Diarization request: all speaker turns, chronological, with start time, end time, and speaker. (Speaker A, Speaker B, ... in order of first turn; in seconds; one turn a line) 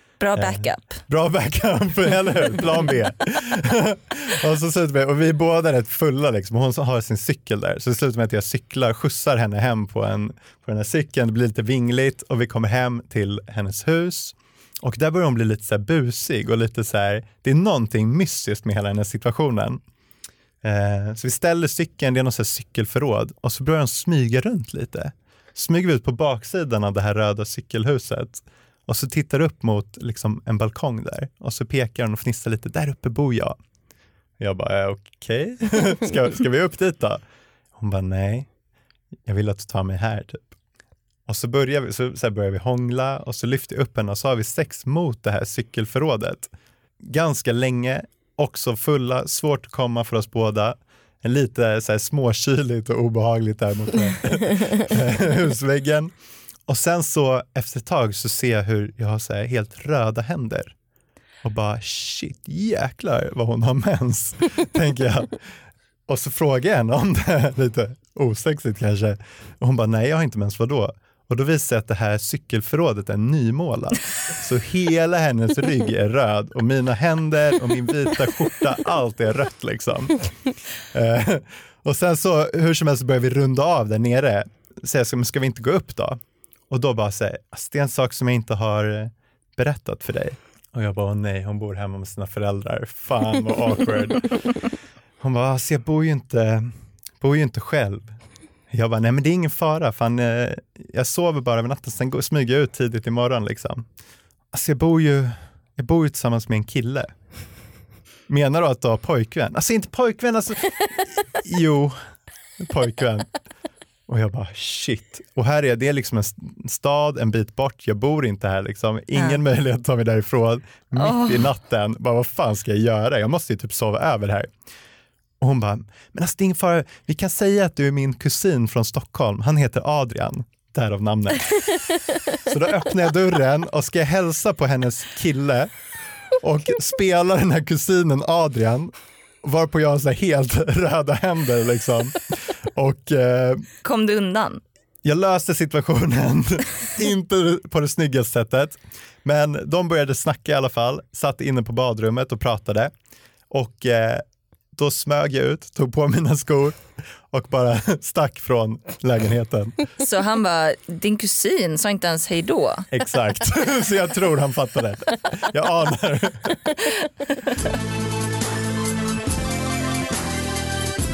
Speaker A: 0.2-1.0
Speaker B: 0.3-19.8
Speaker B: 20.6-33.6
Speaker B: 34.4-37.2
Speaker B: 37.8-38.5
Speaker B: 39.3-40.5
Speaker B: 41.3-46.5
Speaker B: 47.0-56.1
Speaker B: 56.7-60.7
Speaker B: 61.4-65.4
Speaker B: 66.1-80.3
Speaker B: 80.9-86.2
Speaker B: 86.7-94.3
Speaker B: 95.2-98.1
Speaker B: 98.7-103.8
Speaker B: 104.5-107.1
Speaker B: 108.3-112.0
Speaker B: 112.6-113.3
Speaker B: 114.1-124.5
Speaker A: 119.2-119.4
Speaker A: 121.0-121.5
Speaker B: 125.4-131.8
Speaker B: 132.3-135.7
Speaker B: 136.4-138.9
Speaker B: 139.4-143.7
Speaker A: 143.8-144.6
Speaker B: 145.0-152.9
Speaker B: 153.5-154.2
Speaker B: 154.8-159.9
Speaker A: 160.0-162.9
Speaker B: 162.9-166.7